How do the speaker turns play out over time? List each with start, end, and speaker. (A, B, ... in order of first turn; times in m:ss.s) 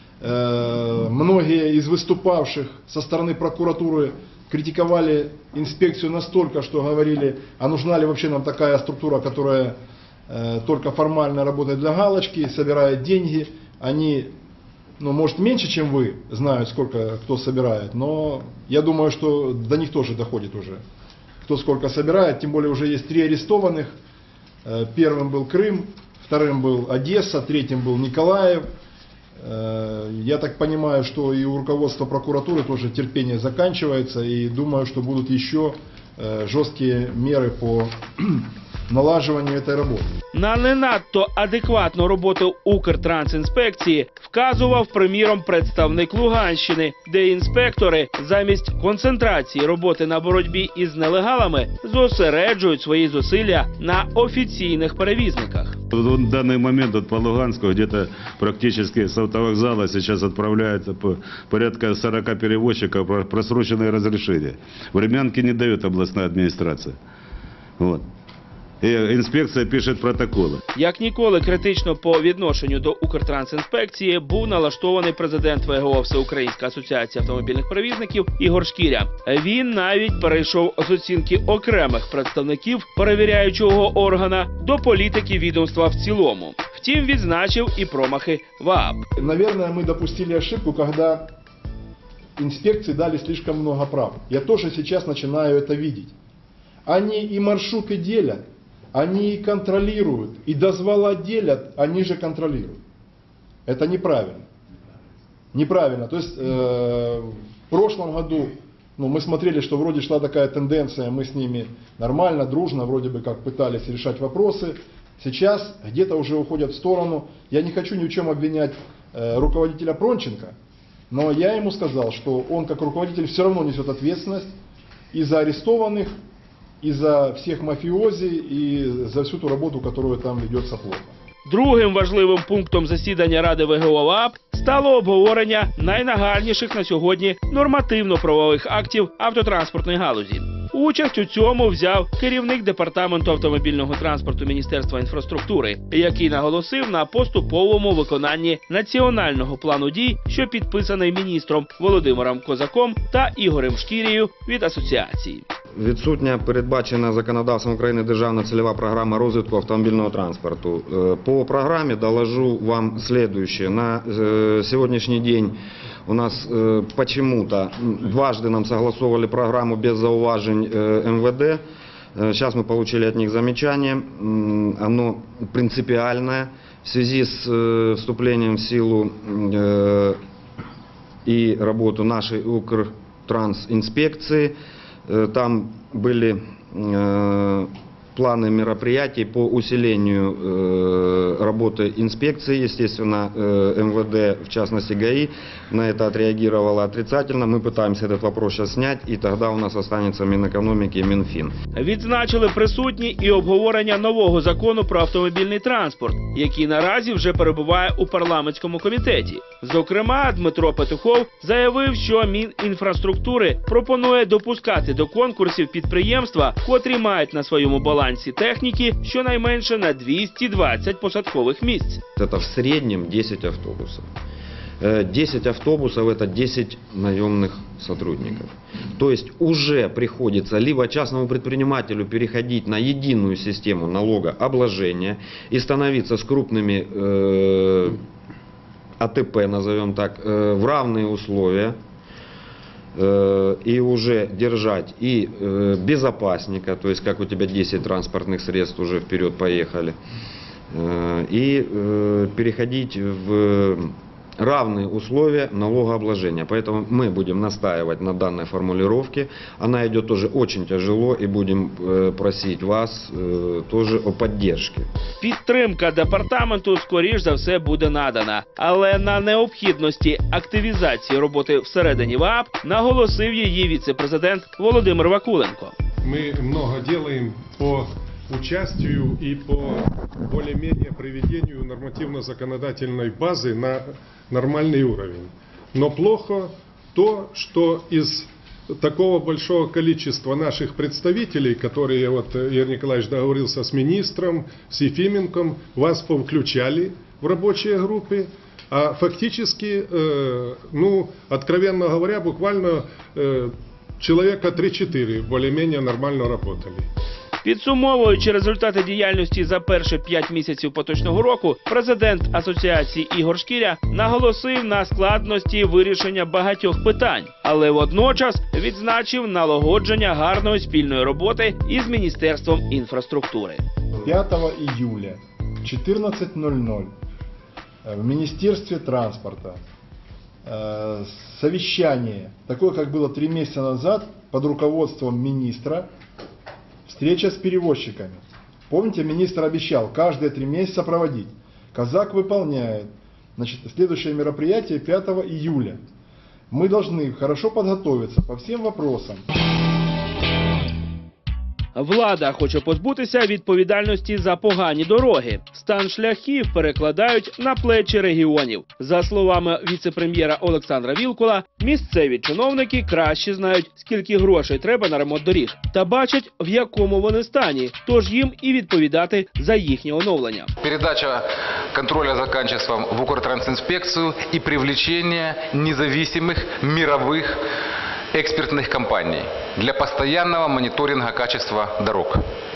0:00.2-0:09.8 A
0:10.3-0:14.3 A
0:15.0-0:20.8 A
0:21.4-0:24.0 A
0:24.6-0:28.6 A
0:29.4-0:40.1 A
0:40.3-0:55.8 B
0:55.9-1:07.0 C
1:07.8-1:08.1 C
1:08.8-1:10.6 C
1:10.7-1:29.0 B
1:29.2-1:31.3 A
1:32.4-1:36.1 A
1:36.8-1:42.8 A
1:43.6-1:44.4 A
1:45.5-2:00.5 A
2:01.1-2:04.5 A
2:05.1-2:06.1 A
2:06.8-2:11.1 A
2:11.4-2:35.4 B
2:35.7-2:51.6 D
2:52.1-3:00.2 D
3:01.2-3:04.5 D
3:05.1-3:21.5 D
3:21.7-3:42.0 B
3:42.2-3:44.1 D
3:44.8-3:58.0 D
3:59.0-4:01.8 D
4:03.0-4:10.0 D
4:10.7-4:24.9 D
4:25.2-4:35.7 B
4:36.0-5:06.9 E
5:07.4-5:23.6 B
5:24.0-5:26.9 A
5:27.8-5:29.6 A
5:30.4-5:35.9 A
5:36.8-5:45.8 A
5:46.5-5:49.2 A
5:51.7-6:10.5 B
6:10.6-6:17.4 F
6:18.1-6:22.2 F